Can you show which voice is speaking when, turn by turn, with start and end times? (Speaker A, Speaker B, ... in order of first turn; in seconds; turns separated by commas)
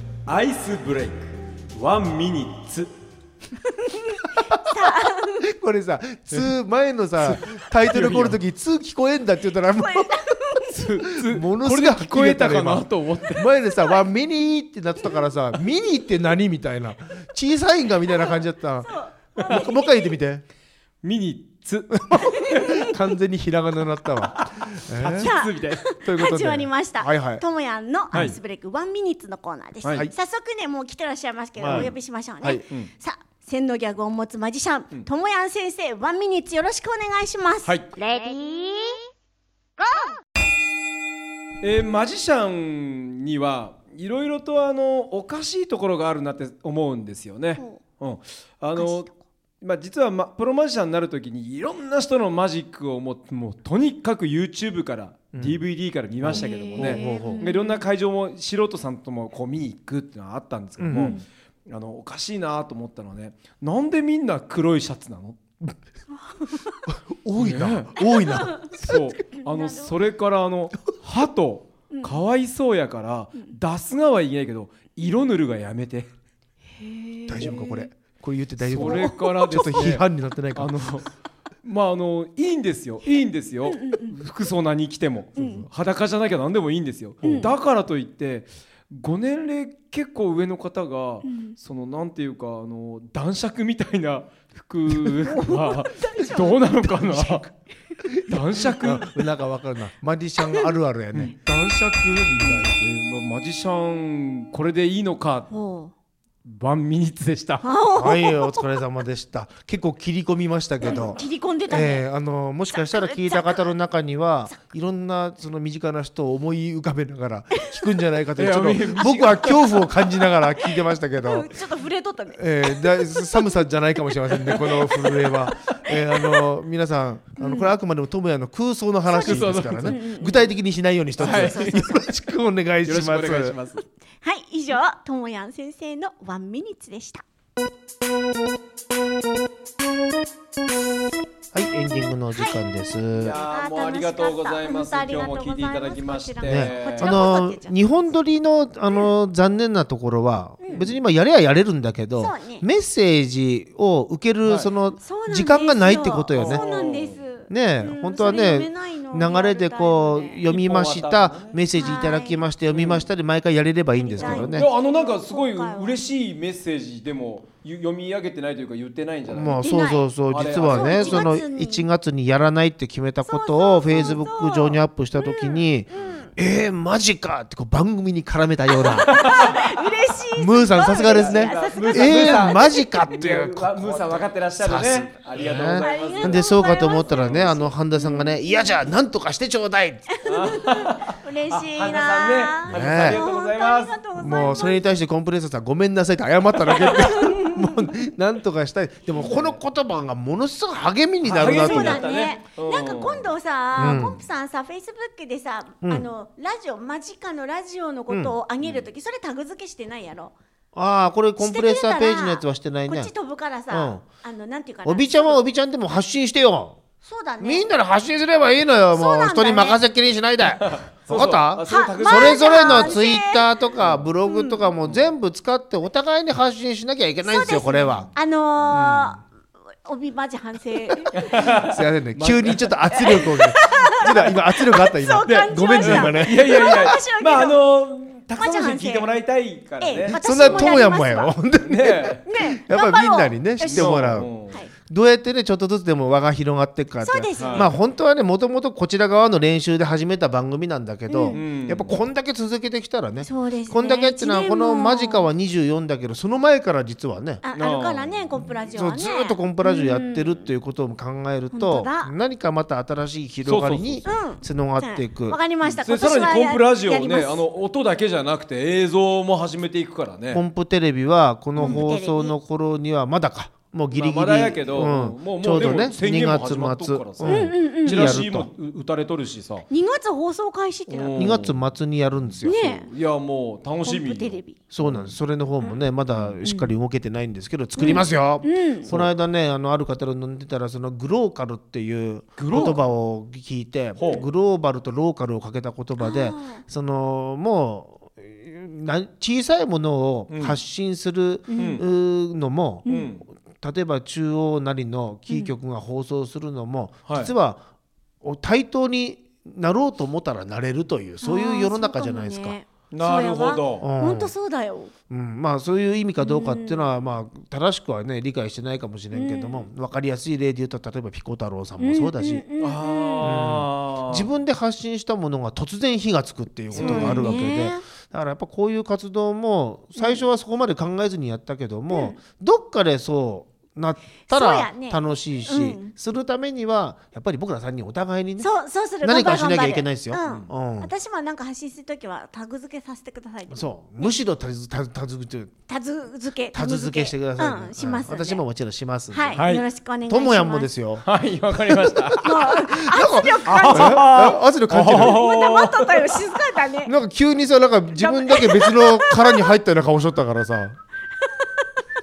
Speaker A: 0.3-2.9, Speaker B: 3.8-5.5, Speaker C: 4.5-10.2, Speaker A: 7.2-8.4, Speaker B: 9.8-10.8, Speaker A: 10.7-13.5, Speaker C: 11.1-20.4, Speaker B: 18.9-20.1, Speaker A: 21.0-22.9, Speaker C: 22.1-25.4, Speaker B: 22.2-22.9, Speaker A: 24.2-25.8, Speaker B: 25.2-39.0, Speaker C: 26.0-27.4, Speaker C: 31.6-32.6, Speaker A: 31.7-31.9, Speaker A: 37.6-37.9, Speaker A: 41.6-49.1, Speaker B: 48.8-49.2, Speaker A: 49.6-65.4, Speaker C: 55.3-55.6, Speaker C: 56.2-57.4, Speaker B: 56.3-57.8, Speaker C: 60.8-61.2, Speaker B: 61.0-61.2, Speaker B: 66.3-66.8, Speaker C: 66.9-68.7, Speaker A: 67.4-68.0, Speaker B: 68.1-68.8, Speaker A: 68.6-76.1, Speaker B: 69.3-69.9, Speaker B: 71.9-72.2, Speaker B: 76.8-77.9, Speaker C: 77.3-80.7, Speaker A: 78.6-81.1, Speaker B: 78.8-79.9, Speaker A: 81.6-97.5, Speaker B: 83.7-84.2, Speaker B: 85.4-85.7, Speaker B: 87.2-87.5, Speaker C: 87.2-87.5, Speaker B: 91.3-91.6, Speaker B: 95.2-96.6, Speaker C: 96.9-97.4, Speaker C: 98.0-101.3, Speaker A: 98.3-99.3, Speaker A: 101.1-105.5, Speaker B: 105.5-105.9, Speaker A: 106.5-107.7, Speaker B: 107.6-108.7, Speaker C: 108.0-121.6, Speaker B: 110.8-112.0, Speaker B: 112.7-113.6, Speaker A: 118.4-120.0, Speaker B: 120.2-123.5, Speaker C: 122.4-133.6, Speaker B: 124.4-126.4, Speaker B: 127.4-127.7, Speaker B: 129.1-130.5, Speaker A: 129.2-130.0, Speaker A: 131.2-131.9, Speaker B: 131.2-132.0, Speaker A: 132.8-133.8, Speaker B: 134.2-137.2, Speaker C: 141.5-143.4, Speaker B: 142.3-142.6, Speaker A: 143.2-147.2, Speaker B: 143.3-147.8, Speaker C: 146.4-156.7, Speaker B: 150.6-150.9, Speaker B: 152.2-152.7, Speaker A: 154.4-154.7, Speaker B: 155.0-160.5, Speaker A: 156.3-157.2, Speaker C: 157.5-164.7, Speaker A: 160.5-161.6, Speaker B: 161.8-162.4, Speaker A: 162.7-163.1, Speaker B: 163.9-166.0, Speaker A: 164.2-169.6, Speaker C: 169.3-179.2, Speaker B: 169.6-171.9, Speaker A: 170.3-171.4, Speaker B: 173.2-176.3, Speaker B: 178.7-182.8, Speaker A: 178.8-179.7, Speaker C: 180.4-190.2, Speaker A: 180.9-187.5, Speaker B: 185.8-188.8, Speaker B: 190.1-194.9, Speaker A: 190.2-194.0, Speaker C: 192.7-193.2, Speaker C: 194.2-202.1, Speaker B: 196.7-197.7, Speaker A: 199.2-199.6, Speaker A: 201.2-203.3, Speaker B: 201.4-210.3, Speaker C: 203.8-204.2, Speaker A: 203.9-204.2, Speaker C: 208.1-208.4, Speaker C: 210.8-213.1, Speaker B: 211.4-215.4, Speaker C: 213.7-214.1, Speaker C: 214.8-216.8, Speaker B: 217.0-217.7, Speaker C: 217.4-228.1, Speaker B: 218.9-219.8, Speaker A: 220.6-223.0, Speaker B: 221.7-223.6, Speaker A: 223.8-224.1, Speaker B: 224.3-224.7, Speaker B: 227.2-229.2, Speaker C: 228.7-229.2, Speaker B: 229.8-231.7, Speaker A: 231.1-232.8, Speaker C: 231.4-236.7, Speaker B: 232.9-237.6, Speaker A: 235.3-240.7, Speaker B: 238.3-239.1, Speaker B: 239.8-241.4, Speaker C: 240.1-244.3, Speaker A: 241.6-242.2, Speaker B: 242.3-244.7, Speaker A: 243.7-244.6, Speaker C: 244.9-257.4, Speaker B: 247.0-247.8, Speaker A: 247.4-247.7, Speaker B: 251.1-251.4, Speaker A: 251.3-252.0, Speaker B: 253.2-255.3, Speaker B: 257.4-260.5, Speaker A: 257.6-258.2, Speaker C: 258.7-265.4, Speaker B: 261.5-262.1, Speaker A: 263.4-264.1, Speaker B: 264.1-267.4, Speaker A: 265.6-270.4, Speaker C: 270.3-278.5, Speaker A: 271.6-271.9, Speaker B: 271.6-272.4, Speaker A: 273.9-279.7, Speaker B: 277.2-278.2, Speaker B: 279.7-281.2, Speaker A: 280.9-281.6, Speaker C: 281.2-282.7, Speaker A: 282.4-285.1, Speaker B: 282.4-282.9, Speaker B: 283.8-284.6, Speaker C: 284.7-307.6, Speaker B: 286.4-286.7, Speaker B: 287.8-288.9, Speaker A: 287.8-288.1, Speaker A: 292.4-292.8, Speaker A: 294.0-294.2, Speaker B: 296.0-296.6, Speaker A: 300.3-300.6, Speaker B: 301.5-301.8, Speaker A: 301.5-301.9, Speaker B: 302.9-303.1, Speaker A: 302.9-303.2, Speaker A: 307.1-307.3, Speaker C: 308.2-312.6, Speaker B: 311.2-314.9, Speaker A: 312.9-313.9, Speaker C: 313.8-314.3, Speaker C: 315.1-322.4, Speaker B: 316.2-316.8, Speaker B: 319.1-319.7, Speaker B: 321.8-323.4, Speaker A: 322.6-324.3, Speaker C: 323.2-338.5, Speaker A: 326.7-327.3, Speaker B: 326.8-327.8, Speaker B: 330.0-330.2, Speaker B: 331.9-332.2, Speaker B: 334.3-335.9, Speaker B: 338.4-344.1, Speaker C: 339.0-340.9, Speaker C: 343.5-345.5, Speaker B: 345.7-348.4, Speaker C: 346.5-349.4, Speaker B: 349.1-350.7, Speaker A: 349.4-349.6, Speaker C: 350.1-351.1, Speaker A: 351.0-352.3, Speaker C: 351.7-355.3, Speaker B: 352.2-354.3, Speaker A: 353.5-356.2, Speaker B: 354.9-356.9, Speaker C: 356.9-360.8, Speaker B: 358.0-359.5